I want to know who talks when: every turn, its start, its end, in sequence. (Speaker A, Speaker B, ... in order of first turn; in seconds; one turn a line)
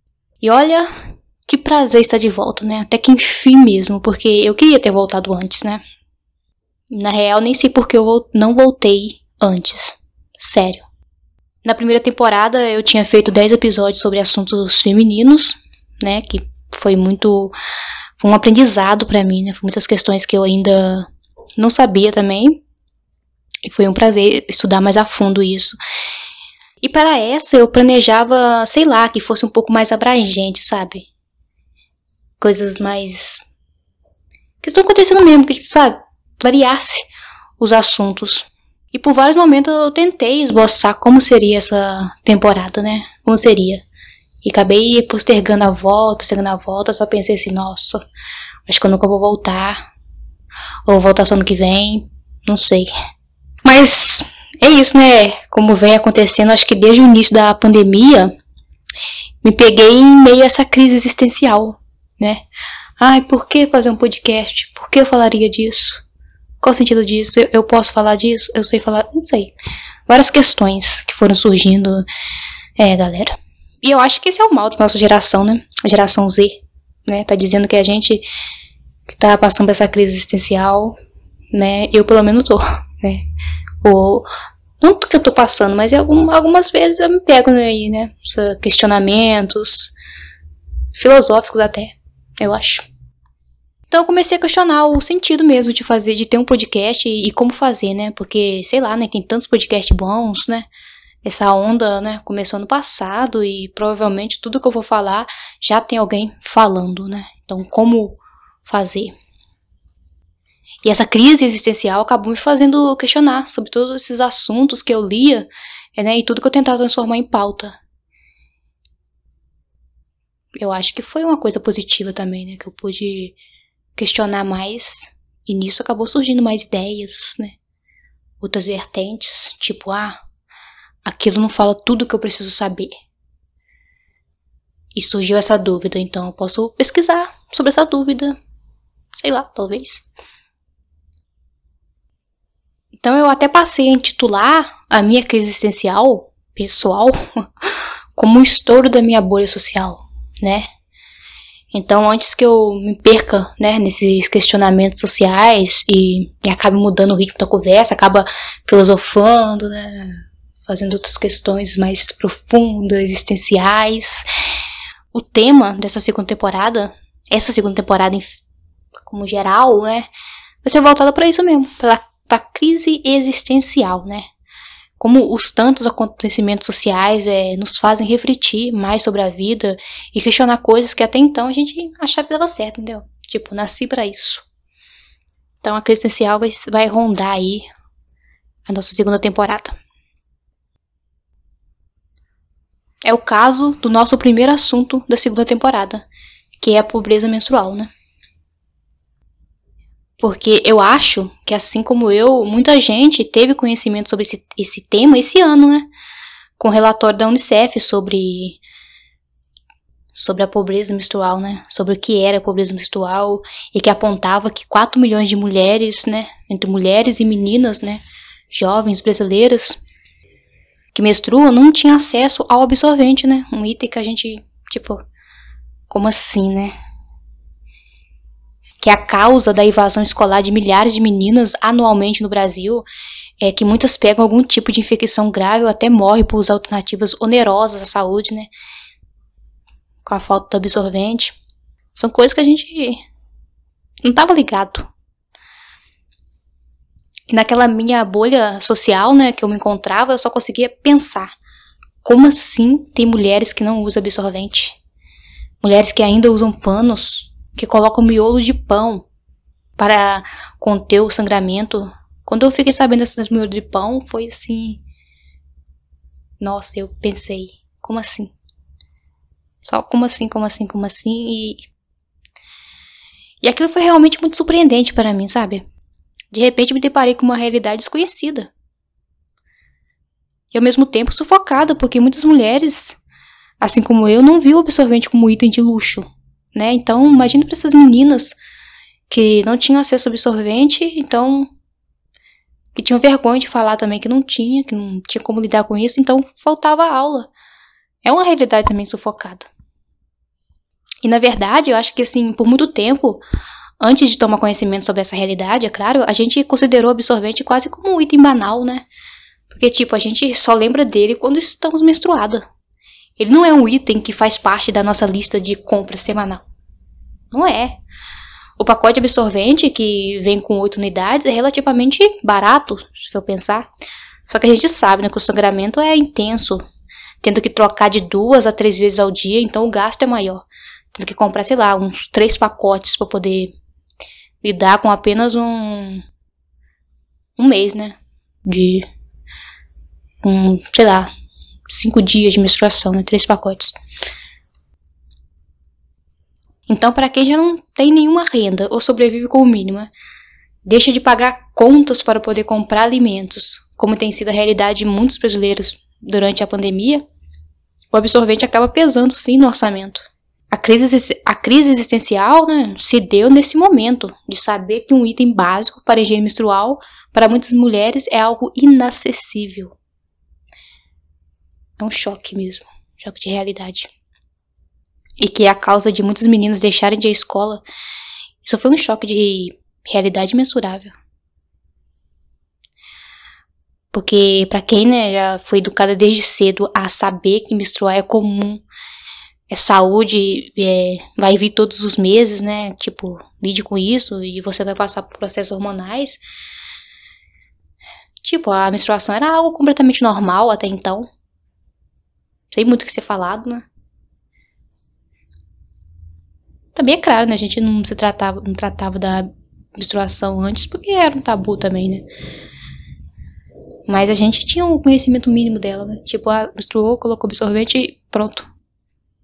Speaker A: 0.4-0.9
Speaker A: 1.4-5.8
Speaker A: 6.9-10.8
Speaker A: 11.6-17.5
Speaker A: 18.2-22.6
Speaker A: 23.6-25.8
Speaker A: 26.8-31.1
Speaker A: 32.4-33.4
Speaker A: 34.6-37.1
Speaker A: 37.6-43.8
Speaker A: 44.4-48.0
Speaker A: 48.7-49.9
Speaker A: 50.9-52.9
Speaker A: 53.6-58.3
Speaker A: 59.4-62.4
Speaker A: 63.0-66.0
Speaker A: 66.6-69.5
Speaker A: 70.1-72.0
Speaker A: 72.8-78.2
Speaker A: 79.1-81.0
Speaker A: 81.5-83.2
Speaker A: 83.8-84.3
Speaker A: 84.8-89.9
Speaker A: 90.9-92.9
Speaker A: 93.9-100.7
Speaker A: 101.2-109.1
Speaker A: 110.8-117.8
Speaker A: 120.6-123.4
Speaker A: 124.0-127.6
Speaker A: 128.4-130.2
Speaker A: 131.0-132.9
Speaker A: 134.9-138.4
Speaker A: 139.1-140.1
Speaker A: 142.9-150.7
Speaker A: 151.7-164.3
Speaker A: 165.1-168.4
Speaker A: 169.1-170.1
Speaker A: 170.6-174.3
Speaker A: 175.0-184.4
Speaker A: 185.6-187.7
Speaker A: 188.7-189.8
Speaker A: 193.0-196.1
Speaker A: 196.6-197.9
Speaker A: 200.2-205.9
Speaker A: 206.6-208.6
Speaker A: 210.1-219.8
Speaker A: 220.9-225.0
Speaker A: 225.9-226.7
Speaker A: 228.8-232.8
Speaker A: 233.4-238.5
Speaker A: 240.0-241.4
Speaker A: 241.9-243.0
Speaker A: 244.0-244.9
Speaker A: 247.3-251.3
Speaker A: 252.0-254.8
Speaker A: 255.6-259.1
Speaker A: 259.8-264.8
Speaker A: 266.4-268.3
Speaker A: 269.6-271.7
Speaker A: 273.4-275.6
Speaker A: 276.3-278.5
Speaker A: 280.5-283.0
Speaker A: 283.6-288.4
Speaker A: 289.1-291.5
Speaker A: 292.8-297.3
Speaker A: 298.0-299.5
Speaker A: 301.0-303.2
Speaker A: 303.8-308.9
Speaker A: 309.5-312.4
Speaker A: 313.2-316.4
Speaker A: 317.3-317.8
Speaker A: 318.6-323.7
Speaker A: 324.3-326.6
Speaker A: 327.2-333.6
Speaker A: 334.4-336.0
Speaker A: 337.4-338.9
Speaker A: 340.2-341.1
Speaker A: 341.7-343.7
Speaker A: 346.7-349.9
Speaker A: 350.6-357.0
Speaker A: 357.9-369.8
Speaker A: 371.8-373.9
Speaker A: 375.2-377.6
Speaker A: 378.4-380.9
Speaker A: 383.9-388.6
Speaker A: 389.5-396.2
Speaker A: 398.2-401.1
Speaker A: 402.5-403.7
Speaker A: 406.7-412.1
Speaker A: 413.9-418.5